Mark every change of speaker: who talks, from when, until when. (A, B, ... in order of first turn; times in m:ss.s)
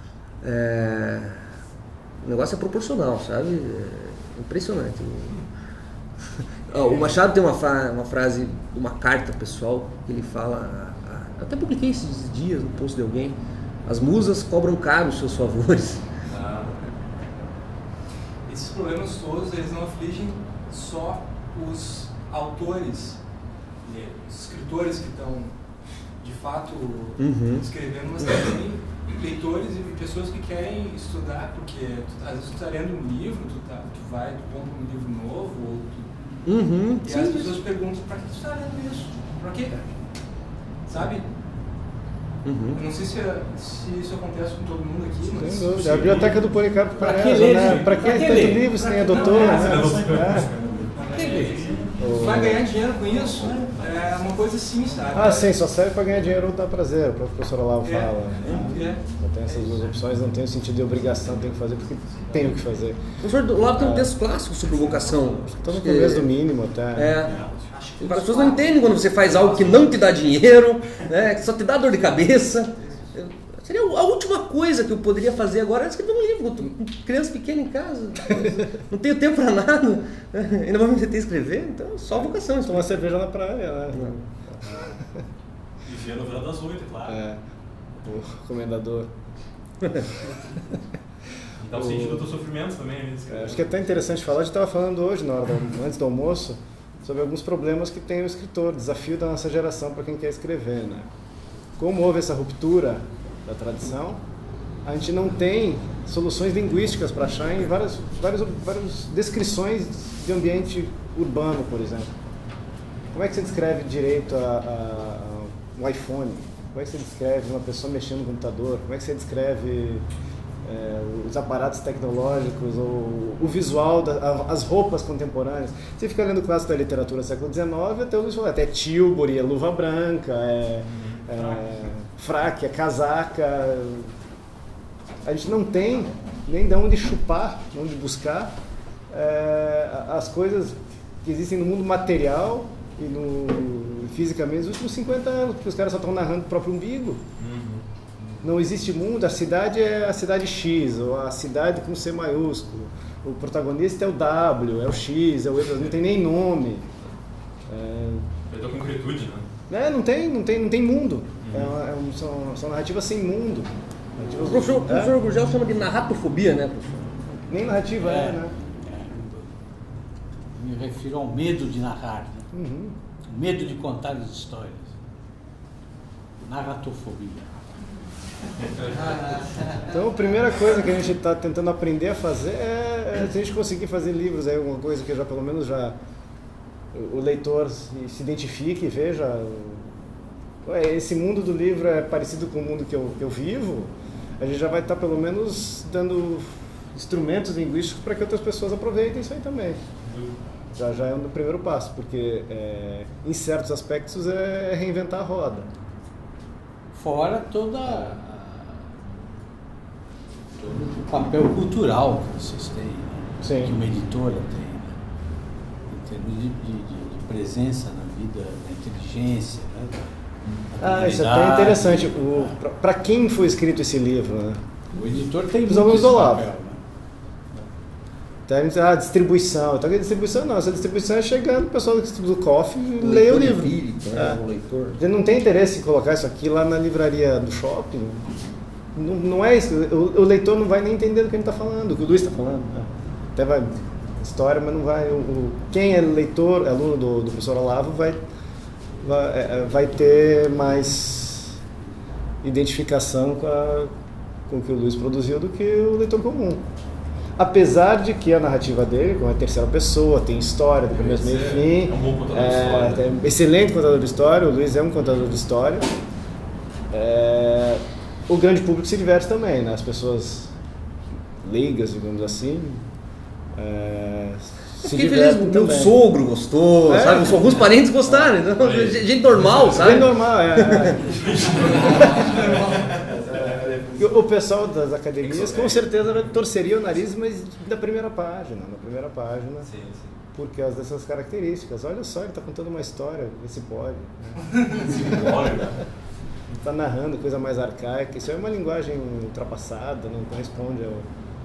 0:00.4-0:01.4 A
0:02.2-0:05.4 A
0:06.4-0:16.0 A
0:16.3-0:16.7 B
0:18.5-0:23.2 C
0:23.8-0:25.5 C
0:26.2-0:36.1 C
0:27.2-0:27.7 A
0:36.4-0:37.6 A
0:37.0-0:39.9 C
0:40.8-0:41.2 C
0:42.4-0:42.8 A
0:42.7-0:46.4 C
0:45.3-0:50.5 D
0:47.0-0:48.7 E
0:47.2-0:48.5 F
0:48.8-0:50.0 C
0:49.2-0:50.1 F
0:49.5-0:50.6 B
0:50.9-0:55.5 C
0:51.0-0:52.0 F
0:52.0-0:52.7 D
0:55.1-1:03.0 D
0:57.8-0:59.0 C
1:03.2-1:06.3 A
1:03.7-1:04.2 D
1:05.2-1:07.2 D
1:06.9-1:07.3 A
1:07.2-1:07.7 F
1:07.4-1:10.2 C
1:08.0-1:23.1 A
1:18.2-1:18.7 D
1:22.1-1:25.2 D
1:24.6-1:24.9 B
1:25.8-1:27.2 F
1:27.0-1:27.4 D
1:28.0-1:29.1 D
1:31.6-1:34.1 B
1:31.7-1:32.3 D
1:33.3-1:41.1 D
1:41.8-1:44.2 D
1:44.8-1:52.1 D
1:53.1-2:00.0 D
2:00.6-2:14.1 D
2:10.9-2:11.4 B
2:15.2-2:18.5 D
2:19.1-2:27.2 D
2:27.4-2:27.8 B
2:28.4-2:36.9 D
2:37.7-2:38.3 D
2:38.5-2:39.4 B
2:39.7-2:45.1 D
2:41.4-2:41.7 B
2:44.4-2:47.2 A
2:47.5-2:48.5 D
2:48.0-2:49.5 E
2:50.5-2:52.5 E
2:52.5-2:53.0 D
2:53.3-2:55.0 E
2:56.4-2:57.5 E
2:58.6-2:59.9 E
2:58.7-2:59.1 B
2:59.9-3:06.0 D
3:06.9-3:10.0 D
3:10.6-3:19.8 D
3:20.0-3:20.4 B
3:20.7-3:25.7 D
3:26.9-3:29.0 E
3:27.8-3:28.2 D
3:30.6-3:35.0 E
3:33.4-3:33.7 D
3:35.9-3:40.1 E
3:40.6-3:42.5 E
3:40.8-3:44.6 D
3:44.9-3:46.8 E
3:45.6-3:46.5 D
3:48.5-3:54.4 D
3:53.0-3:55.0 A
3:55.0-3:58.3 D
3:58.9-4:08.2 D
4:09.0-4:11.6 D
4:12.4-4:13.9 D
4:14.5-4:16.6 D
4:17.4-4:26.0 D
4:20.9-4:23.1 B
4:26.9-4:30.5 D
4:31.4-4:32.8 D
4:33.5-4:36.0 D
4:34.8-4:41.0 A
4:36.9-4:38.3 D
4:38.6-4:39.7 B
4:39.6-4:42.6 D
4:41.0-4:42.9 B
4:42.6-4:44.0 F
4:44.0-4:49.7 D
4:45.2-4:46.2 B
4:49.6-4:50.2 B
4:50.3-4:55.8 D
4:54.9-4:55.8 B
4:56.6-5:01.1 D